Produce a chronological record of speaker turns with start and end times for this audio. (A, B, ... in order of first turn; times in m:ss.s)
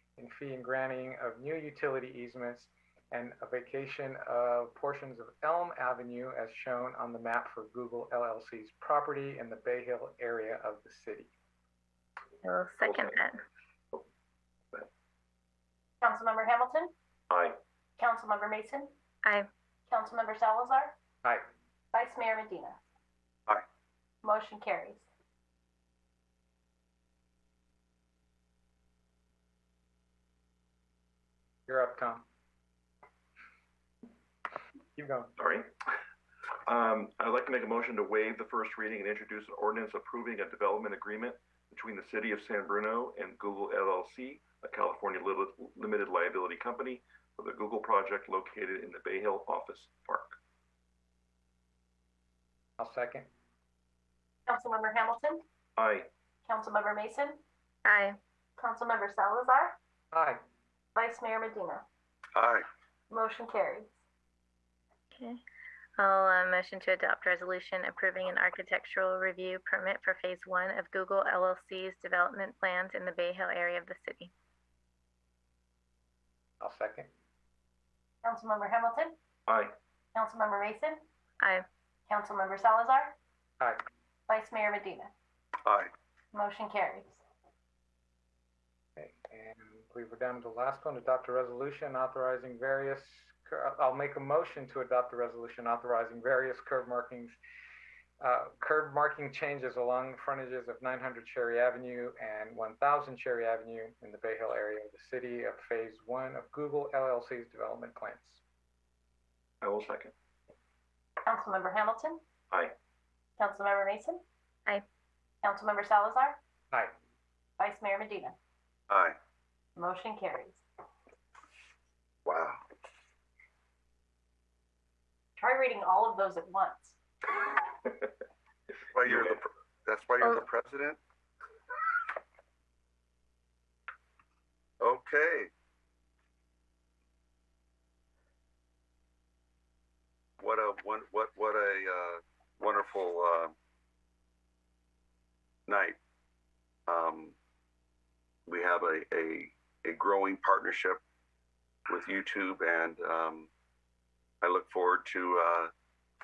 0:00.2-0:11.3 A
0:12.4-0:13.4 B
0:12.8-0:13.2 C
0:16.0-0:16.9 D
0:17.3-0:17.6 C
0:18.0-0:18.9 D
0:19.9-0:21.0 D
0:21.9-0:22.8 D
0:24.2-0:25.0 D
0:31.7-0:32.2 A
0:35.0-0:35.3 A
0:35.4-0:35.7 C
0:36.7-0:50.4 C
0:52.8-0:53.3 A
0:54.5-0:55.4 D
0:55.8-0:56.1 C
0:56.4-0:57.4 D
0:57.8-0:58.2 B
0:58.6-0:59.8 D
1:00.1-1:00.4 A
1:01.0-1:01.8 D
1:02.3-1:02.7 E
1:03.1-1:03.9 D
1:06.0-1:14.3 B
1:16.6-1:17.1 A
1:18.2-1:19.2 D
1:19.5-1:19.7 C
1:20.2-1:21.0 D
1:22.1-1:23.2 D
1:24.3-1:25.1 D
1:25.6-1:25.9 E
1:26.3-1:27.2 D
1:29.0-1:37.4 A
1:38.2-1:48.4 A
1:49.6-1:50.1 C
1:51.2-1:52.2 D
1:53.4-1:54.2 D
1:55.4-1:56.4 D
1:57.6-1:58.4 D
1:58.9-1:59.2 E
1:59.8-2:00.6 D
2:02.2-2:02.6 E
2:05.4-2:07.0 D
2:08.9-2:11.0 E
2:14.8-2:15.5 E
2:20.4-2:23.6 E
2:25.7-2:26.0 E
2:26.9-2:27.3 E
2:28.5-2:31.0 E
2:31.9-2:33.5 E
2:34.4-2:35.7 E